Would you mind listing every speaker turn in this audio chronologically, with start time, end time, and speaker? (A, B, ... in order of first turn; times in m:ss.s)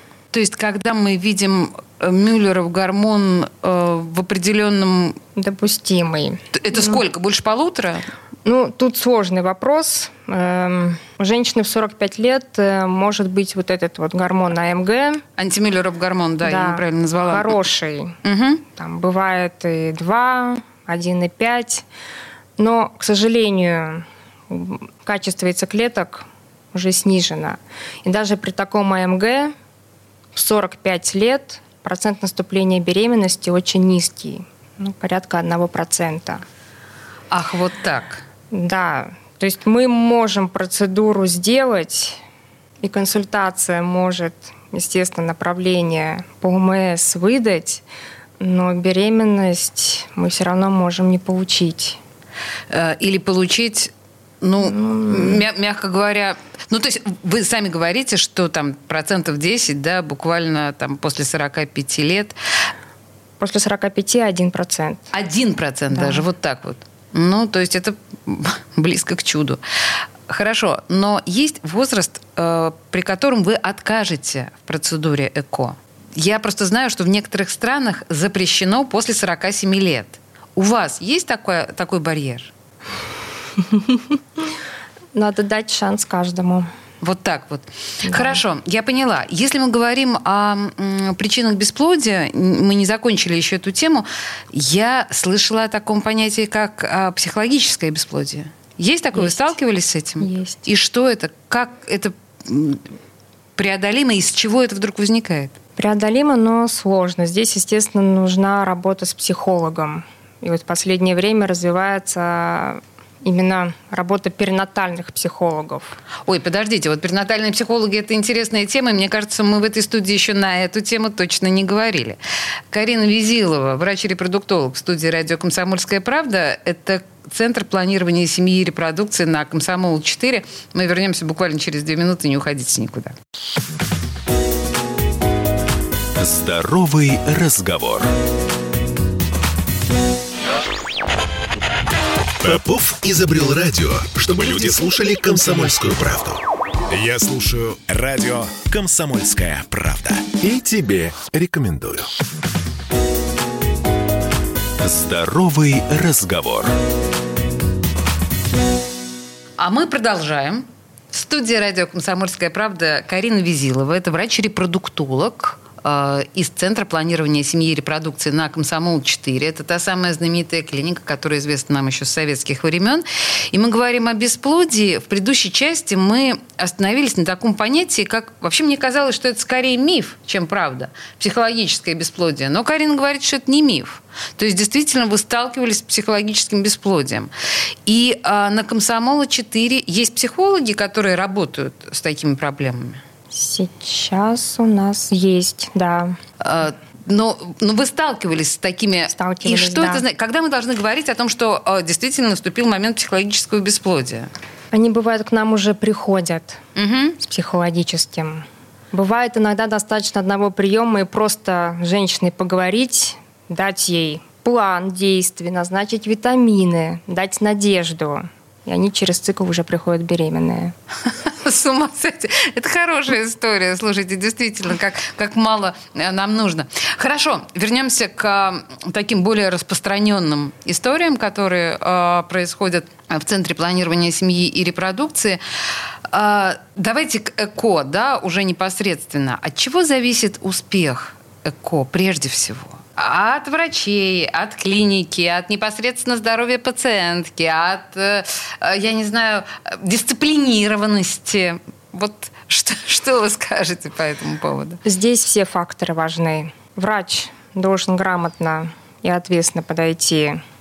0:00.3-0:05.2 A
0:05.4-0:07.0 B
0:06.5-0:08.0 A
0:08.4-0:15.2 B
0:15.4-0:17.6 A
0:16.4-0:18.2 B
0:18.2-0:18.6 A
0:18.7-0:21.8 B
0:22.6-0:29.5 B
0:30.3-0:36.4 B
0:37.3-0:38.2 A
0:38.5-0:42.2 B
0:42.8-0:47.8 B
0:48.4-0:52.0 B
0:52.7-1:02.4 A
0:54.6-0:55.4 B
1:03.4-1:05.1 B
1:05.1-1:09.6 A
1:05.9-1:06.2 B
1:10.3-1:22.5 A
1:23.6-1:24.0 B
1:25.1-1:26.7 B
1:27.0-1:42.8 A
1:28.0-1:28.4 B
1:39.1-1:39.5 B
1:40.2-1:40.6 B
1:43.6-1:45.5 A
1:45.8-1:56.0 B
1:56.2-2:02.2 A
2:02.7-2:13.1 A
2:16.2-2:18.1 C
2:22.4-2:32.1 C
2:34.8-2:36.7 C
2:39.6-3:07.3 A
3:07.9-3:13.0 A
3:13.3-3:16.2 B
3:16.4-3:24.3 A
3:19.1-3:20.0 B
3:24.7-3:26.6 B
3:26.8-3:27.2 A
3:27.2-3:40.7 B
3:41.0-3:55.4 A
3:56.1-4:14.8 A
4:14.8-4:20.4 B